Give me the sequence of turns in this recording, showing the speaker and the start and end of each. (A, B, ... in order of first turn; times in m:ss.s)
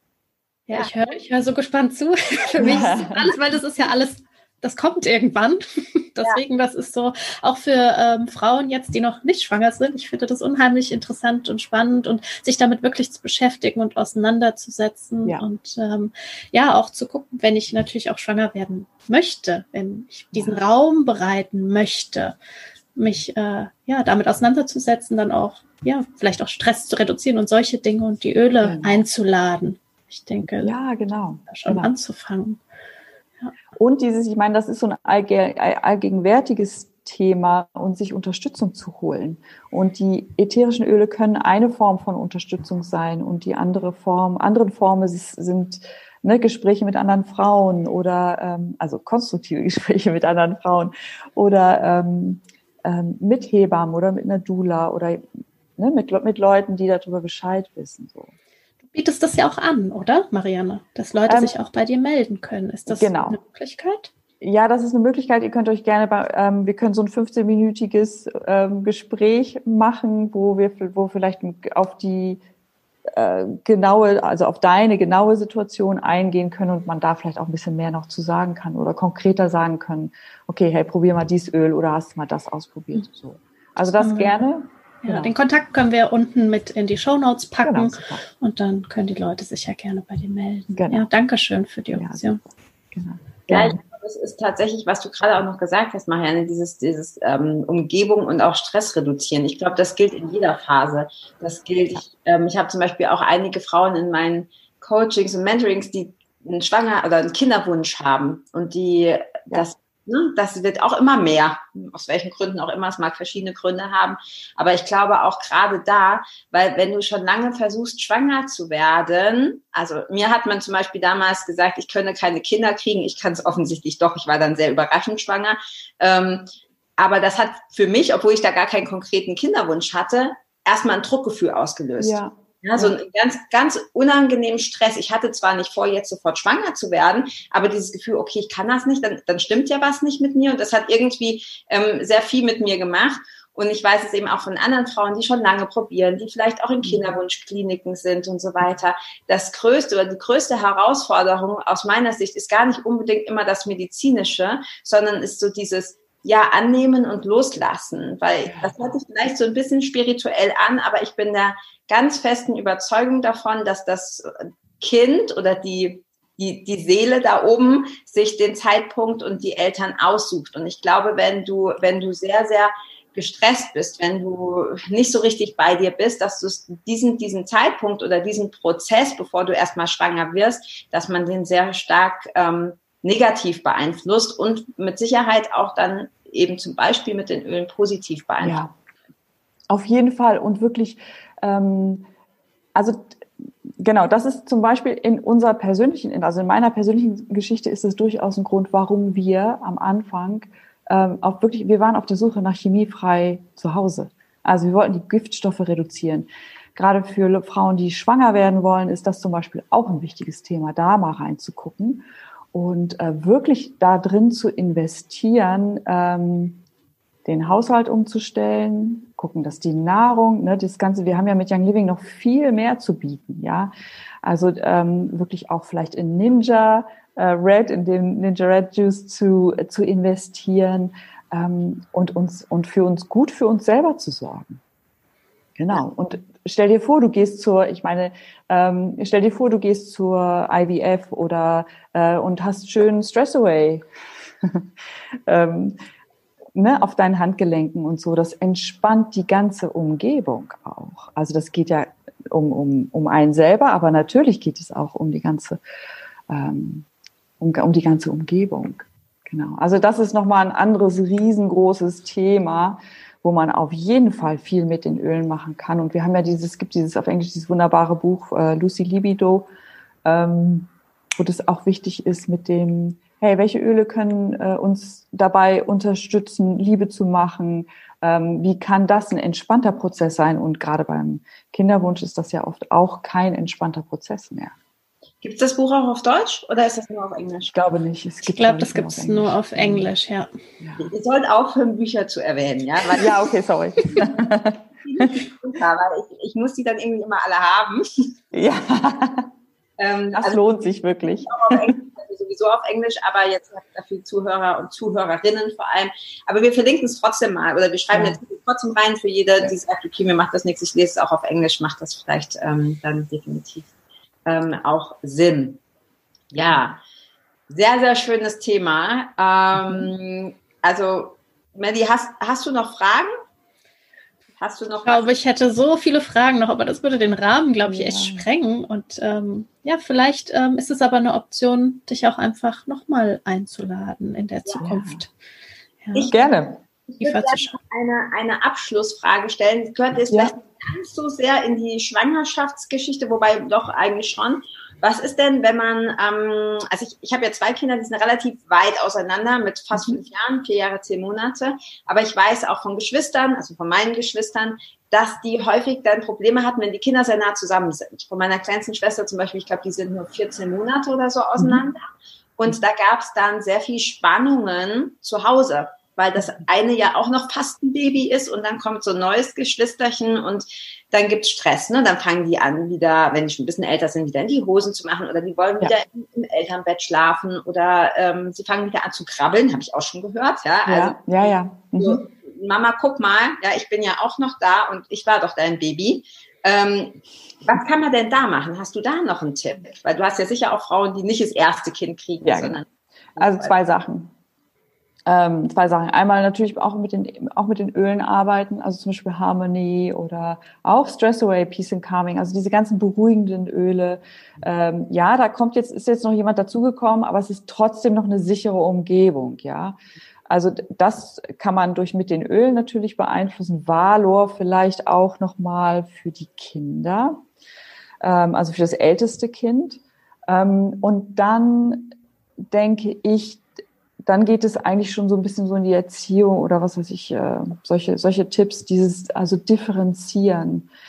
0:00.7-0:22.4 A
0:02.6-0:03.4 B
0:20.3-0:20.6 B
0:23.0-0:30.7 A
0:28.6-0:29.0 B
0:30.6-0:31.9 B
0:31.5-0:32.6 A
0:33.8-0:55.2 B
0:55.8-0:58.3 B
0:58.9-1:04.1 A
1:01.3-1:01.5 B
1:02.9-1:03.4 B
1:04.4-1:12.4 B
1:13.1-1:25.3 B
1:24.0-1:24.4 A
1:25.0-1:32.4 A
1:27.6-1:28.2 B
1:30.7-1:31.1 B
1:32.0-1:32.3 B
1:32.9-1:33.8 B
1:33.5-3:08.6 C
2:12.0-2:12.9 B
2:38.5-2:38.8 B
3:08.4-3:08.7 B
3:09.7-3:12.1 B
3:12.8-3:13.2 B
3:13.8-3:36.6 B
3:37.3-3:43.7 B
3:44.2-3:54.6 B
3:55.6-4:03.8 B
4:04.4-4:04.7 B
4:05.3-4:05.8 B
4:06.6-4:15.6 B
4:16.3-4:16.9 B
4:17.4-4:29.5 B
4:30.0-4:44.5 B
4:45.2-4:47.6 C
4:47.5-4:49.9 B
4:48.3-4:50.3 A
4:50.6-4:50.9 B
4:50.8-4:53.2 C
4:53.0-4:55.2 B
4:54.8-4:58.1 C
4:58.3-4:59.3 B
4:59.8-5:00.5 C
5:00.1-5:01.7 B
5:01.2-5:13.7 C
5:07.9-5:08.2 B
5:14.3-5:15.6 C
5:16.3-5:16.8 C
5:17.5-5:23.1 C
5:19.6-5:19.9 B
5:24.4-5:25.1 C
5:24.8-5:35.1 A
5:27.6-5:28.3 B
5:34.6-5:35.0 B
5:35.8-5:36.2 A
5:36.1-5:36.6 B
5:36.9-6:01.9 C
5:37.0-5:37.6 A
6:01.4-6:01.6 B
6:02.4-6:33.5 C
6:20.7-6:22.0 B
6:32.2-6:32.6 B
6:33.2-6:34.1 B
6:35.1-6:49.8 B
6:50.3-6:57.2 B
6:58.0-7:01.9 B
7:02.5-7:03.4 B
7:04.0-7:10.7 B